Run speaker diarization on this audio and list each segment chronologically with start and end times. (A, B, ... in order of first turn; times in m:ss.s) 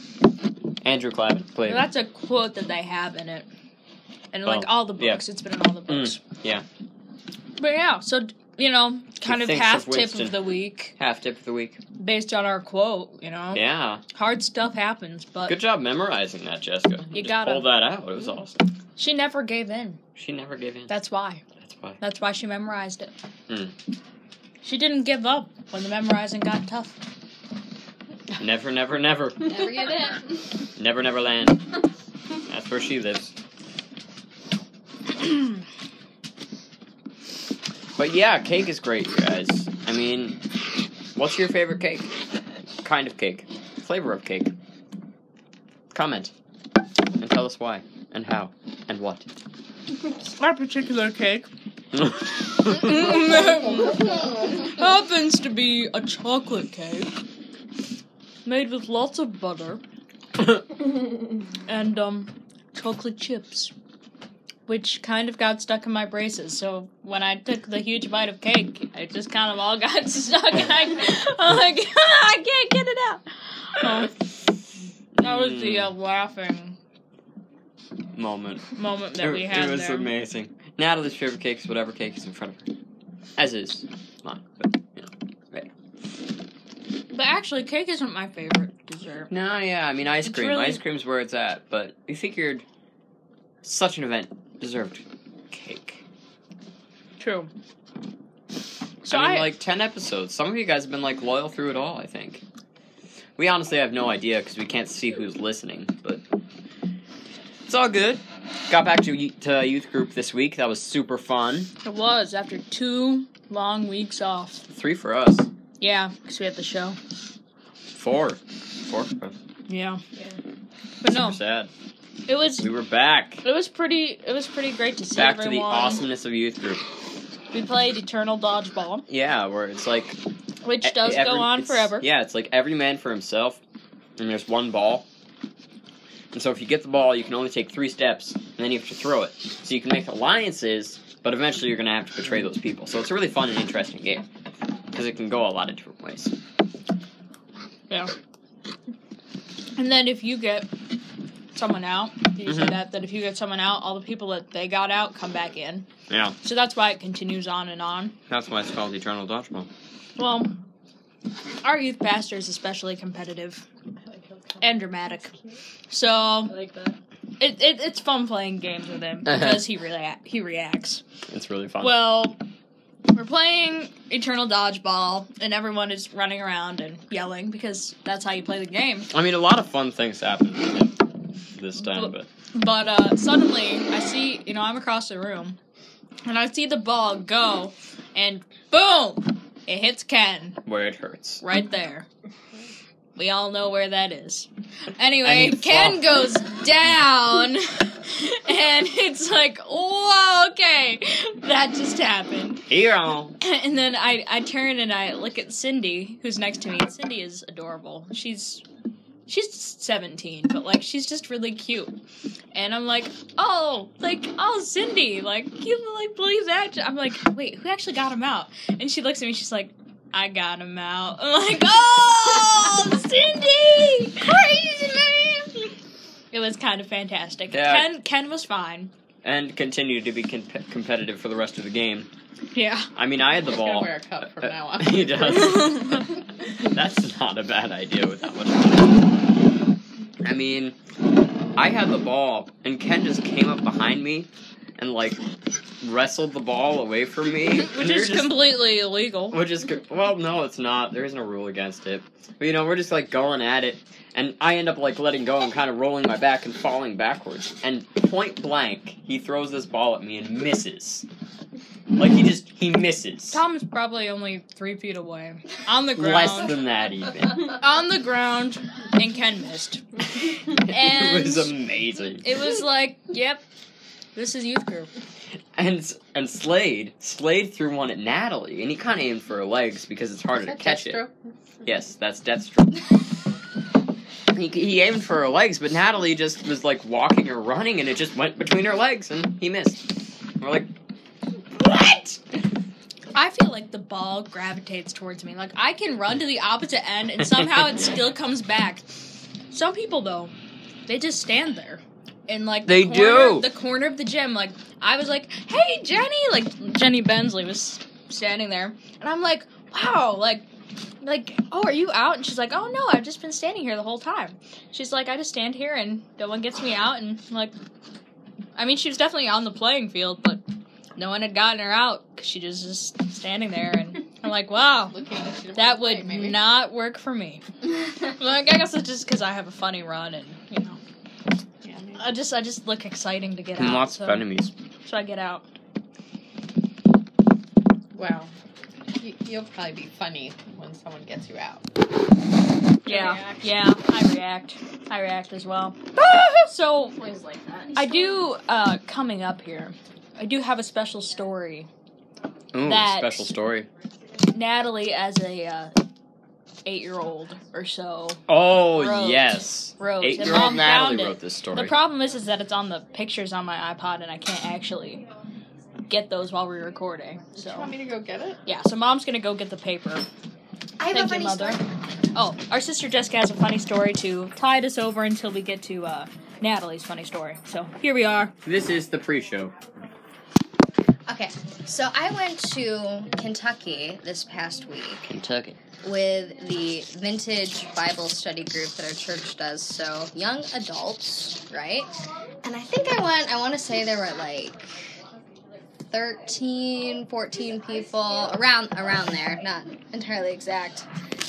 0:00.8-0:01.9 A
0:01.6-0:03.5 B
0:04.3-0:06.2 B
0:04.4-0:05.2 A
0:05.9-0:06.6 A
0:07.6-0:10.9 B
0:09.2-0:10.4 A
0:10.9-0:11.8 A
0:12.0-0:15.6 B
0:13.5-0:14.0 A
0:15.5-0:18.6 A
0:17.1-0:17.8 B
0:19.0-0:20.0 B
0:20.2-0:21.0 A
0:20.9-0:21.4 B
0:21.6-0:22.0 A
0:22.0-0:23.1 B
0:23.5-0:23.8 A
0:24.6-0:27.0 B
0:28.4-0:29.7 A
0:29.5-0:30.3 C
0:30.7-0:31.6 A
0:32.5-0:33.3 A
0:38.0-0:40.4 A
0:41.2-0:42.1 A
0:42.8-0:44.5 A
0:45.9-0:46.3 A
0:47.2-0:49.3 A
0:50.4-0:51.5 B
0:52.4-0:57.1 B
0:58.4-0:59.8 B
1:01.7-1:03.7 B
1:04.7-1:14.2 B
1:15.2-1:16.0 A
1:15.2-1:16.8 B
1:18.2-1:22.7 A
1:18.8-1:20.1 B
1:23.4-1:25.7 A
1:27.1-1:29.3 B
1:29.3-1:32.6 A
1:30.2-1:30.8 B
1:33.6-1:36.0 A
1:37.2-1:37.5 B
1:39.0-1:39.5 B
1:39.1-1:42.4 A
1:43.4-1:46.2 A
1:47.7-1:51.7 A
1:51.8-1:54.6 B
1:54.7-1:55.5 A
1:55.8-1:57.0 B
1:57.9-1:59.4 A
1:59.7-2:00.0 B
2:01.0-2:01.4 B
2:01.0-2:01.7 A
2:02.3-2:02.7 B
2:02.6-2:03.4 A
2:03.4-2:06.0 B
2:05.2-2:06.8 A
2:07.5-2:09.1 B
2:09.1-2:10.2 A
2:10.6-2:12.1 B
2:10.8-2:13.6 A
2:14.2-2:15.0 A
2:16.3-2:24.3 A
2:24.9-2:26.3 A
2:29.8-2:30.7 B
2:31.5-2:35.9 B
2:32.5-2:32.8 A
2:36.1-2:36.4 A
2:36.4-2:38.2 B
2:38.3-2:39.7 A
2:40.2-2:40.6 B
2:41.6-2:43.6 B
2:44.6-2:45.3 B
2:45.9-2:46.6 B
2:46.6-2:46.9 C
2:47.4-2:51.0 B
2:49.3-2:49.6 A
2:51.3-2:52.1 A
2:51.8-2:52.4 B
2:53.1-2:59.1 B
2:59.1-3:01.0 A
3:01.6-3:02.3 A
3:01.8-3:05.6 B
3:06.3-3:10.6 B
3:10.7-3:11.4 A
3:11.4-3:12.1 B
3:13.2-3:22.7 B
3:15.2-3:16.1 A
3:22.7-3:23.4 A
3:23.4-3:28.6 B
3:29.3-3:32.0 B
3:32.5-3:45.7 B
3:46.3-3:48.9 B
3:47.5-3:47.9 A
3:49.2-3:52.1 A
3:52.5-3:52.9 B
3:53.0-3:59.0 A
3:53.4-3:55.5 D
3:55.6-3:56.0 B
4:00.2-4:00.8 A
4:01.6-4:05.2 A
4:05.8-4:08.4 A
4:07.5-4:09.4 B
4:09.3-4:21.1 A
4:22.0-4:23.4 A
4:23.3-4:26.6 B
4:26.0-4:27.6 A
4:27.4-4:33.4 B
4:30.6-4:32.2 A
4:34.2-4:34.9 B
4:35.6-4:41.0 A
4:40.6-4:41.0 C
4:41.6-4:42.8 A
4:44.3-4:50.7 A
4:51.6-4:52.2 A
4:53.1-5:00.3 B
4:57.2-4:57.7 A
5:00.9-5:10.4 B
5:02.6-5:03.5 A
5:11.0-5:17.6 B
5:18.6-5:20.4 B
5:21.0-5:25.0 B
5:24.9-5:26.4 D
5:25.6-5:30.8 B
5:31.6-5:32.0 D
5:32.0-5:34.3 B
5:33.6-5:34.5 A
5:34.8-5:35.5 B
5:37.9-5:38.3 D
5:39.0-5:41.6 D
5:42.9-5:43.4 D
5:42.9-5:47.0 B
5:47.0-5:48.0 D
5:47.3-5:47.8 C
5:47.8-5:51.7 B
5:52.5-5:53.7 A
5:52.6-5:53.4 B
5:54.3-5:55.8 B
5:56.6-6:05.1 B
5:58.3-6:01.8 A
6:05.9-6:07.7 B
6:07.4-6:08.4 D
6:08.4-6:10.0 B
6:10.8-6:11.6 C
6:10.9-6:11.6 B
6:12.1-6:18.3 B
6:18.4-6:19.5 A
6:21.1-6:25.2 C
6:25.1-6:25.6 A
6:25.8-6:34.6 C
6:35.9-6:40.9 C